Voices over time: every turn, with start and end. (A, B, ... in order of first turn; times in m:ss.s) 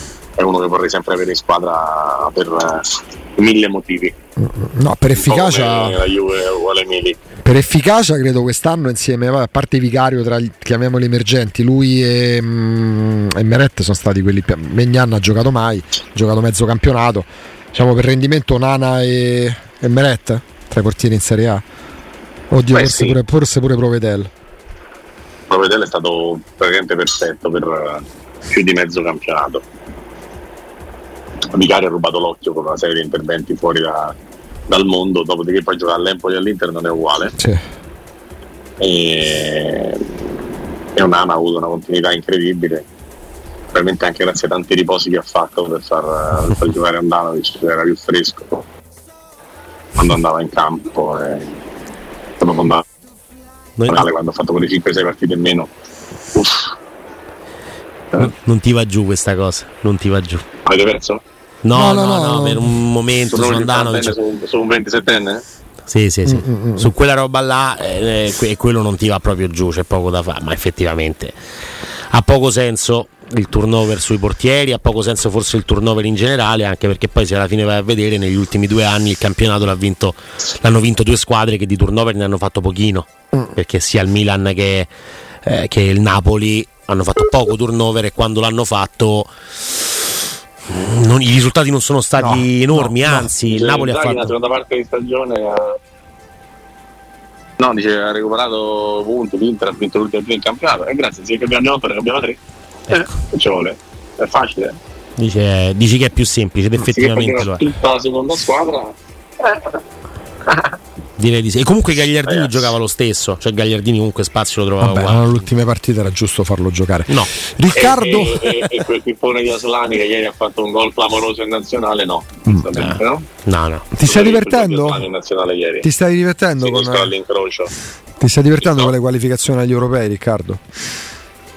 0:00.4-0:04.2 A
0:04.4-0:06.0 B
0:05.2-0:07.2 A
0:07.4-0:21.6 B
0:22.5-0:24.3 B
0:22.7-0:23.2 A
0:25.5-0:29.6 A
0:31.5-0:34.2 A
0:34.7-0:37.4 A
0:38.8-0:40.2 A
0:41.0-0:42.9 A
0:43.7-0:48.7 A
0:50.0-0:51.5 A
0:52.4-0:52.8 A
0:53.8-0:54.1 C
0:53.9-0:55.7 A
0:56.3-0:56.7 A
0:58.2-1:00.4 C
1:00.6-1:01.2 A
1:01.6-1:04.2 C
1:01.7-1:02.8 B
1:03.3-1:05.4 A
1:05.9-1:11.4 C
1:06.3-1:06.9 B
1:12.1-1:24.9 C
1:25.4-1:29.3 C
1:30.7-1:34.3 C
1:32.2-1:33.3 B
1:33.4-1:35.8 A
1:37.6-1:44.8 A
1:45.2-1:47.6 C
1:46.8-1:49.8 A
1:50.5-1:50.7 A
1:51.2-1:55.3 C
1:52.2-1:52.7 A
1:54.8-1:58.6 B
1:57.7-2:03.3 A
2:02.8-2:03.9 C
2:03.9-2:05.0 B
2:04.0-2:05.9 A
2:05.8-2:07.1 B
2:06.6-2:07.7 A
2:08.2-2:10.6 B
2:08.6-2:08.9 A